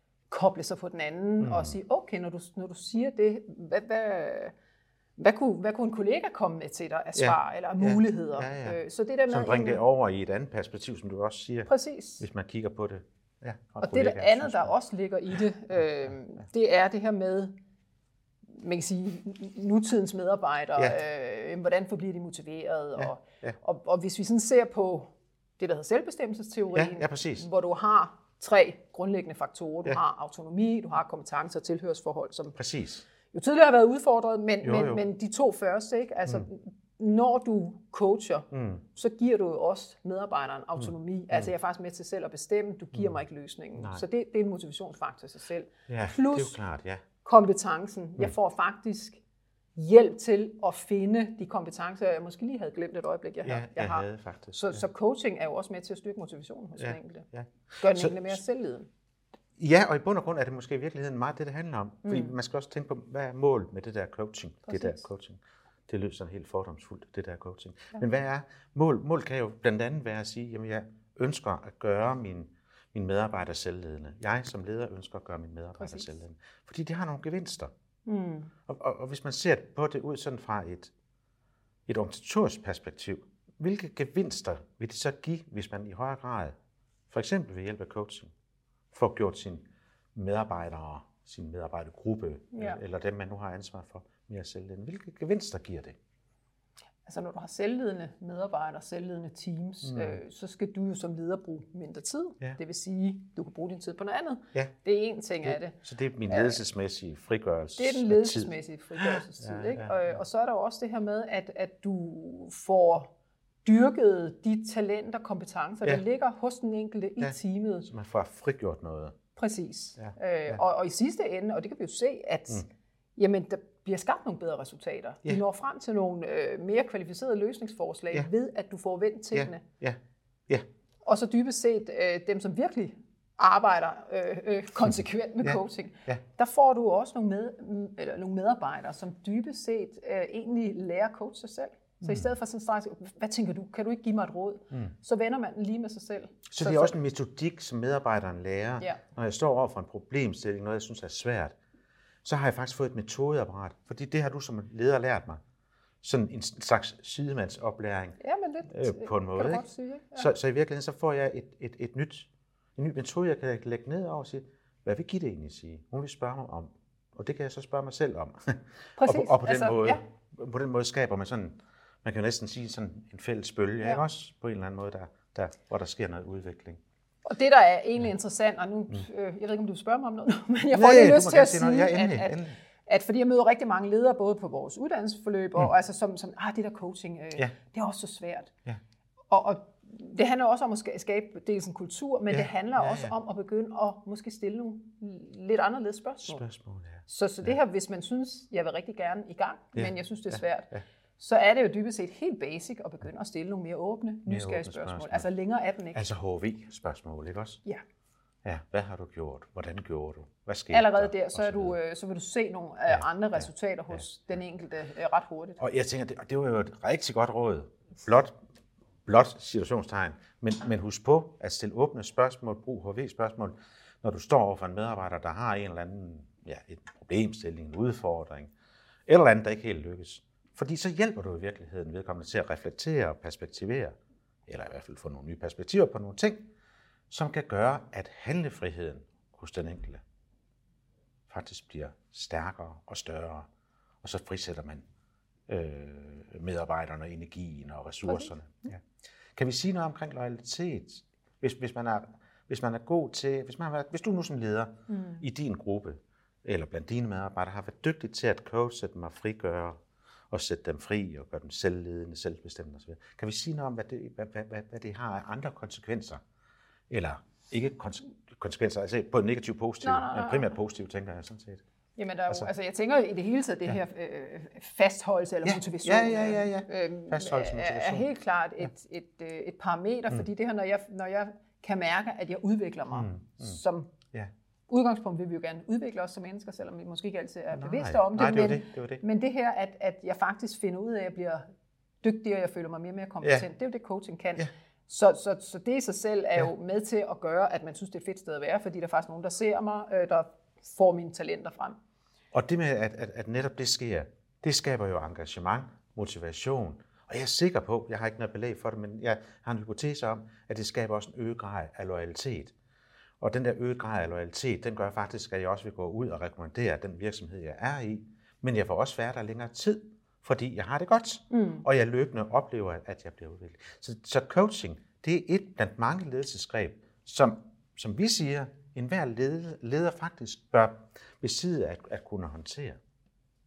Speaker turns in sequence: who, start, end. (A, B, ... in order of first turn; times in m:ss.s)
0:00.3-0:04.5 A
0:01.4-0:01.8 B
0:05.2-0:09.8 A
0:07.2-0:14.7 B
0:11.7-0:12.2 A
0:13.8-0:17.5 A
0:18.5-0:32.6 A
0:23.0-0:23.6 B
0:26.7-0:27.4 B
0:32.6-0:33.0 B
0:33.3-0:46.6 A
0:34.6-0:35.0 B
0:38.5-0:38.8 B
0:40.8-0:41.5 B
0:43.8-0:44.0 B
0:45.9-0:47.0 B
0:47.2-0:49.2 A
0:49.8-0:57.3 A
0:53.4-0:54.8 B
0:56.8-0:58.4 B
0:57.8-0:58.9 A
0:59.6-1:17.7 B
1:02.0-1:02.3 A
1:04.7-1:05.0 A
1:15.8-1:16.1 A
1:18.0-1:18.5 A
1:18.7-1:20.9 B
1:21.9-1:26.5 B
1:27.1-1:28.3 B
1:28.9-1:36.0 B
1:32.5-1:32.8 A
1:37.0-1:45.8 A
1:39.8-1:40.2 B
1:45.4-1:50.0 B
1:46.3-1:46.6 A
1:47.8-1:53.1 A
1:53.6-1:57.9 A
1:57.2-1:59.2 B
1:59.4-2:09.6 A
2:00.0-2:00.6 B
2:09.3-2:10.6 B
2:11.0-2:27.0 A
2:15.4-2:16.2 B
2:22.0-2:22.3 B
2:26.5-2:31.5 B
2:32.2-2:35.4 B
2:36.0-2:38.2 B
2:38.2-2:40.3 A
2:38.7-2:56.8 B
2:49.0-2:50.0 A
2:57.2-3:08.5 A
3:00.7-3:02.6 B
3:09.3-3:16.4 A
3:12.3-3:13.1 B
3:16.2-3:17.5 B
3:17.1-3:26.0 A
3:19.7-3:20.8 B
3:24.3-3:25.2 B
3:25.9-3:27.6 B
3:28.4-3:31.8 B
3:30.7-3:35.6 A
3:32.9-3:34.0 B
3:35.6-3:38.3 B
3:39.0-3:48.5 B
3:49.1-3:53.9 B
3:54.5-3:56.5 B
3:57.1-4:00.0 B
4:01.3-4:03.5 B
4:04.0-4:04.8 B
4:05.5-4:08.8 B
4:08.0-4:08.3 A
4:09.4-4:19.8 B
4:14.9-4:15.2 A
4:20.3-4:26.2 B
4:26.9-4:31.6 B
4:29.8-4:30.6 A
4:32.0-4:43.9 A
4:35.4-4:38.1 B
4:42.9-4:43.6 B
4:44.7-4:51.4 A
4:47.5-4:49.0 B
4:52.0-5:01.8 A
5:02.3-5:12.5 B
5:13.2-5:32.8 B
5:21.3-5:21.6 A